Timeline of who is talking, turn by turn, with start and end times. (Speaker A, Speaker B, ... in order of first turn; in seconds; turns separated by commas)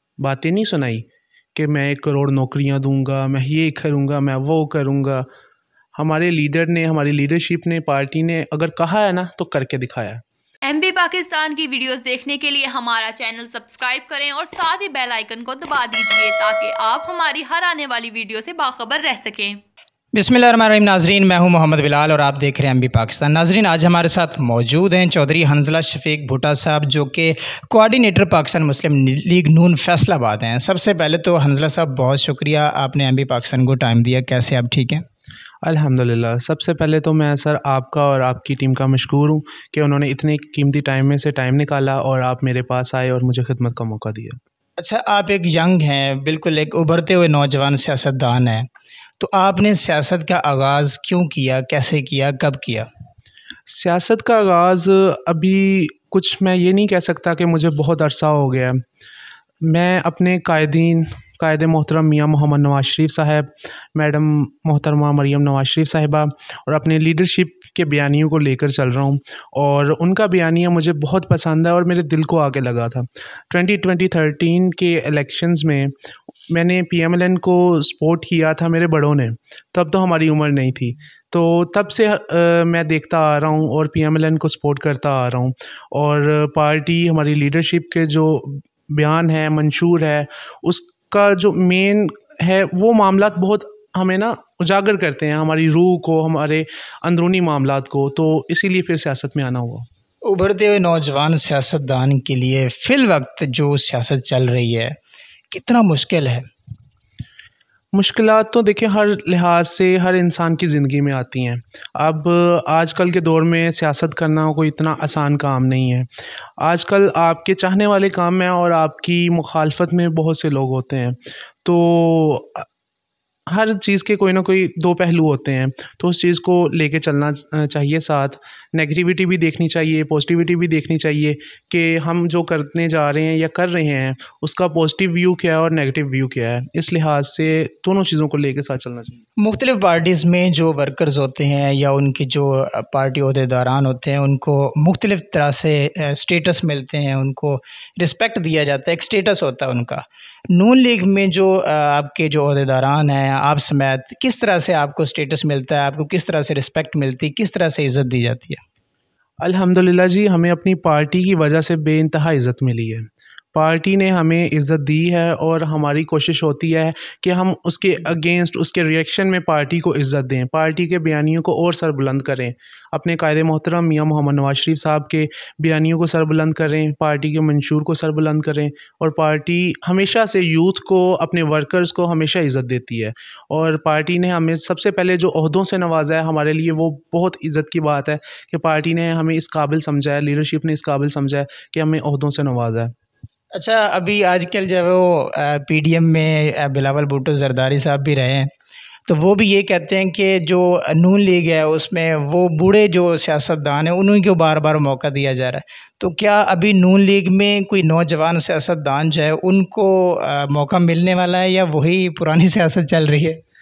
Speaker A: 0.2-5.3, Speaker A: 6.0-10.2, Speaker B: 10.7-19.6, Speaker C: 20.1-35.0, Speaker A: 35.6-44.4, Speaker C: 44.8-48.7, Speaker C: 49.2-52.9, Speaker A: 53.7-58.8, Speaker A: 59.6-75.9, Speaker A: 76.5-99.8, Speaker C: 100.2-105.0, Speaker C: 105.5-106.5, Speaker A: 107.9-116.1, Speaker A: 116.6-122.7, Speaker A: 123.5-139.2, Speaker C: 139.4-158.6, Speaker A: 159.4-192.9, Speaker C: 193.5-198.5, Speaker C: 199.1-213.4